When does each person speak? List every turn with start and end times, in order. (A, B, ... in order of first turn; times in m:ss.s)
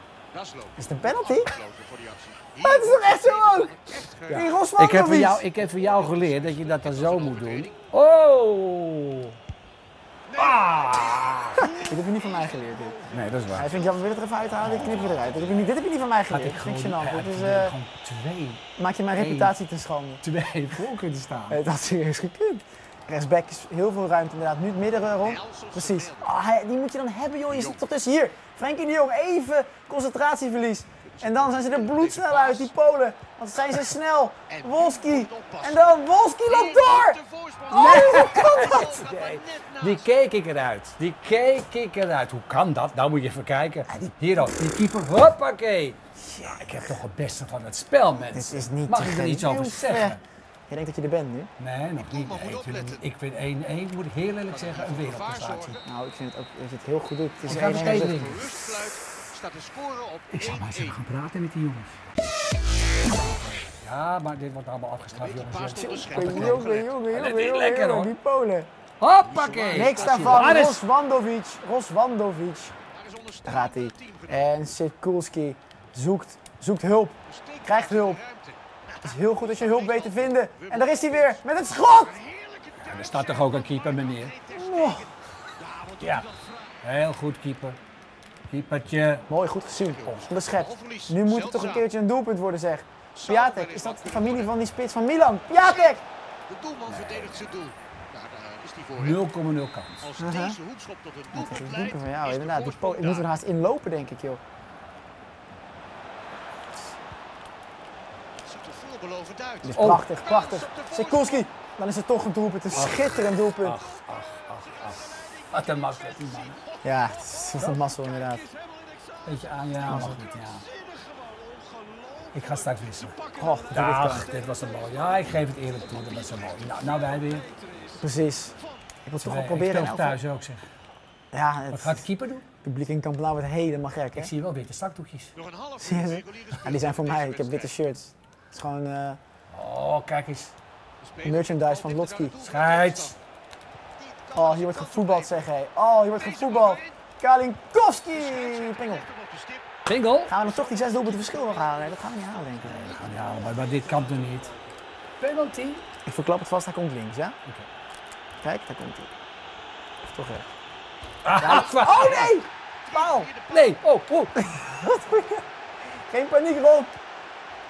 0:00.3-0:04.4 A
0:00.8-0:01.5 B
0:02.6-0:05.5 B
0:04.3-0:09.4 C
0:05.6-0:07.7 A
0:10.3-0:15.7 A
0:10.4-0:11.8 C
0:11.6-0:13.0 B
0:13.1-0:13.7 C
0:13.5-0:17.8 B
0:16.3-0:18.6 C
0:18.8-0:20.2 B
0:19.2-0:19.5 C
0:20.2-0:21.6 C
0:21.5-0:37.2 B
0:25.2-0:26.2 A
0:31.2-0:32.7 A
0:34.5-0:35.9 A
0:36.5-0:40.1 A
0:37.7-0:50.2 C
0:37.7-0:39.0 B
0:46.2-0:47.0 B
0:48.3-0:50.2 B
0:50.7-0:51.5 B
0:51.6-0:55.8 C
0:52.0-0:53.0 A
0:54.5-0:55.8 A
0:55.8-0:58.4 B
0:57.4-0:58.6 C
0:57.6-1:01.0 A
1:00.3-1:02.0 C
1:03.2-1:08.1 C
1:05.2-1:06.9 A
1:05.8-1:08.7 B
1:09.0-1:10.8 C
1:09.3-1:10.6 A
1:09.7-1:12.7 B
1:13.0-1:14.5 A
1:13.5-1:18.2 B
1:17.3-1:21.4 A
1:19.0-1:22.2 B
1:22.1-1:26.7 A
1:22.8-1:24.4 C
1:24.5-1:25.1 B
1:26.0-1:26.3 C
1:26.8-1:27.8 C
1:28.5-1:29.3 C
1:29.3-1:36.0 B
1:30.0-1:31.8 A
1:33.2-1:34.5 A
1:36.5-1:39.2 A
1:36.9-1:37.3 C
1:39.0-1:40.1 C
1:40.0-1:43.3 A
1:40.2-1:40.6 B
1:41.3-1:44.4 B
1:48.5-1:51.5 A
1:49.6-1:53.8 B
1:49.8-1:50.1 C
1:52.7-1:56.6 C
1:54.7-1:55.5 A
1:56.2-1:56.9 A
1:56.8-1:58.4 B
1:58.7-1:59.1 A
1:59.2-2:00.7 C
1:59.9-2:00.2 B
2:00.7-2:04.9 A
2:02.3-2:03.2 C
2:03.4-2:04.3 B
2:03.7-2:07.5 C
2:06.0-2:06.5 A
2:08.0-2:10.2 B
2:09.2-2:10.6 C
2:11.3-2:12.1 B
2:11.7-2:12.4 C
2:12.6-2:14.3 B
2:14.2-2:15.3 C
2:15.4-2:17.7 A
2:15.8-2:19.2 B
2:19.5-2:20.5 C
2:21.0-2:23.2 A
2:21.2-2:22.4 B
2:22.4-2:23.2 C
2:24.0-2:25.3 A
2:24.4-2:29.1 B
2:26.2-2:26.9 A
2:28.2-2:29.8 A
2:29.9-2:30.4 C
2:30.3-2:33.1 B
2:30.5-2:31.8 A
2:32.6-2:34.5 C
2:35.2-2:35.8 C
2:36.0-2:37.4 B
2:38.4-2:39.1 B
2:40.0-2:40.5 B
2:41.2-2:42.4 C
2:41.4-2:43.3 B
2:41.8-2:42.3 A
2:42.9-2:43.8 A
2:43.5-2:44.4 C
2:44.4-2:47.0 B